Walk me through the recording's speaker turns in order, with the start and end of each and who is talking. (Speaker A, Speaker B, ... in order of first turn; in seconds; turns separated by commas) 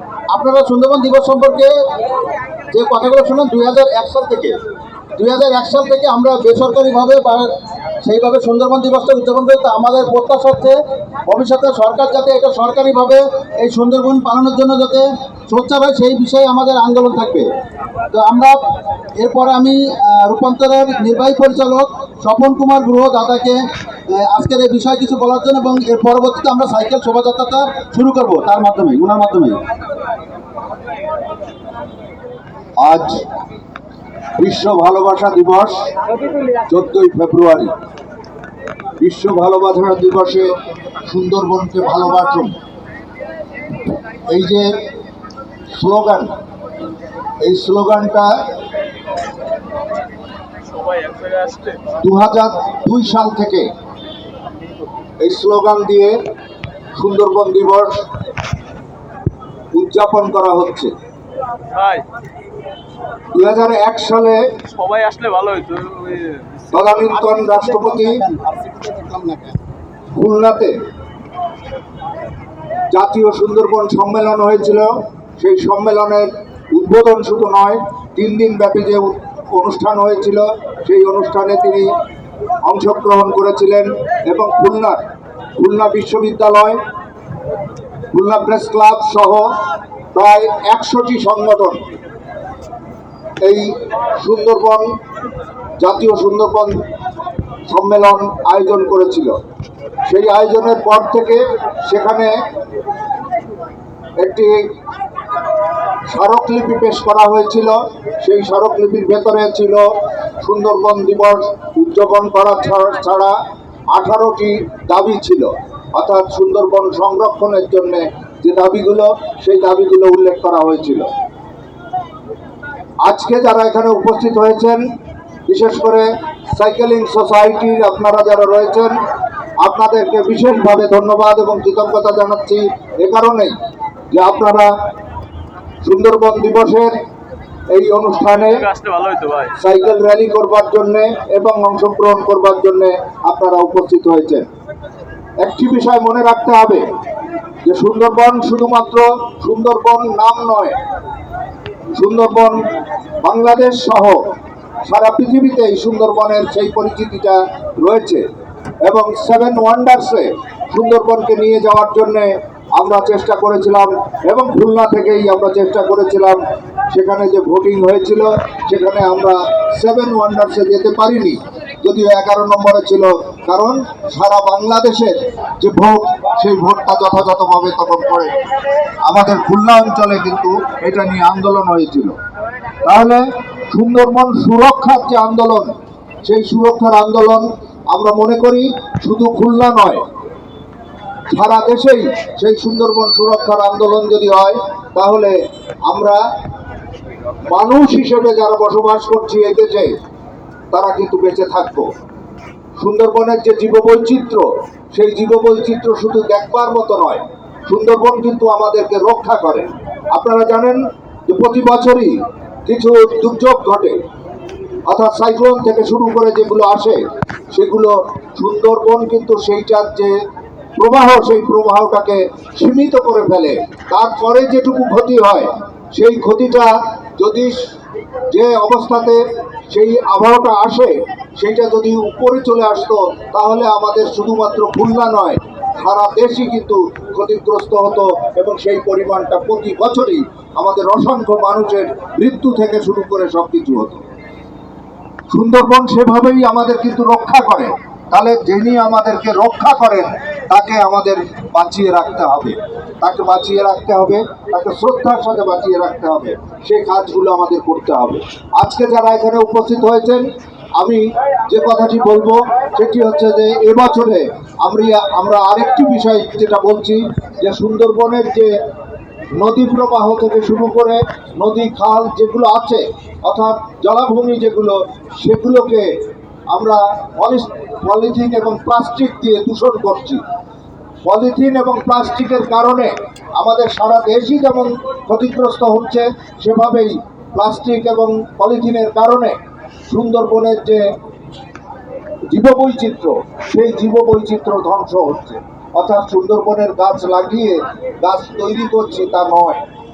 Speaker A: 0.3-1.8, Speaker A: 2.7-4.6, Speaker A: 5.2-17.5, Speaker A: 18.1-18.6, Speaker A: 19.2-29.6, Speaker B: 32.8-33.2, Speaker B: 34.4-35.9, Speaker B: 36.7-37.7, Speaker B: 39.0-40.5, Speaker B: 41.0-42.6, Speaker B: 44.3-44.7, Speaker B: 45.7-46.3, Speaker B: 47.4-48.5, Speaker C: 51.0-51.8, Speaker B: 52.0-53.7, Speaker B: 55.2-56.1, Speaker B: 57.0-58.0, Speaker B: 59.8-60.9, Speaker C: 61.8-62.0, Speaker B: 63.4-64.4, Speaker C: 64.8-66.6, Speaker B: 66.7-68.2, Speaker A: 67.2-69.6, Speaker B: 70.2-70.8, Speaker B: 72.9-81.9, Speaker B: 82.7-85.0, Speaker B: 85.6-86.8, Speaker B: 88.1-89.5, Speaker B: 90.1-91.8, Speaker B: 93.4-94.9, Speaker B: 95.8-96.8, Speaker B: 97.7-99.3, Speaker B: 100.1-102.3, Speaker B: 104.2-104.6, Speaker B: 106.1-109.8, Speaker B: 110.4-113.3, Speaker B: 113.9-121.1, Speaker B: 123.0-124.8, Speaker B: 125.5-128.9, Speaker B: 129.6-133.5, Speaker B: 134.1-134.7, Speaker B: 135.8-136.9, Speaker B: 137.7-138.7, Speaker C: 139.0-139.4, Speaker B: 139.6-144.5, Speaker B: 145.4-146.8, Speaker B: 147.7-150.8, Speaker B: 152.0-152.6, Speaker B: 153.2-154.2, Speaker B: 154.9-158.2, Speaker B: 158.9-166.4, Speaker B: 166.9-178.3, Speaker B: 179.1-182.2, Speaker B: 182.8-185.7, Speaker B: 186.2-190.0, Speaker B: 191.3-195.3, Speaker B: 195.9-196.2, Speaker B: 197.4-199.9, Speaker B: 200.7-201.9, Speaker B: 202.8-212.2, Speaker B: 212.7-214.0, Speaker B: 214.9-217.0, Speaker B: 217.5-220.1, Speaker B: 220.8-227.6, Speaker B: 228.3-244.0, Speaker B: 245.3-260.3, Speaker B: 260.8-268.5, Speaker B: 269.4-275.9, Speaker B: 276.5-280.2, Speaker B: 281.1-289.4, Speaker B: 289.9-290.8, Speaker B: 292.3-299.6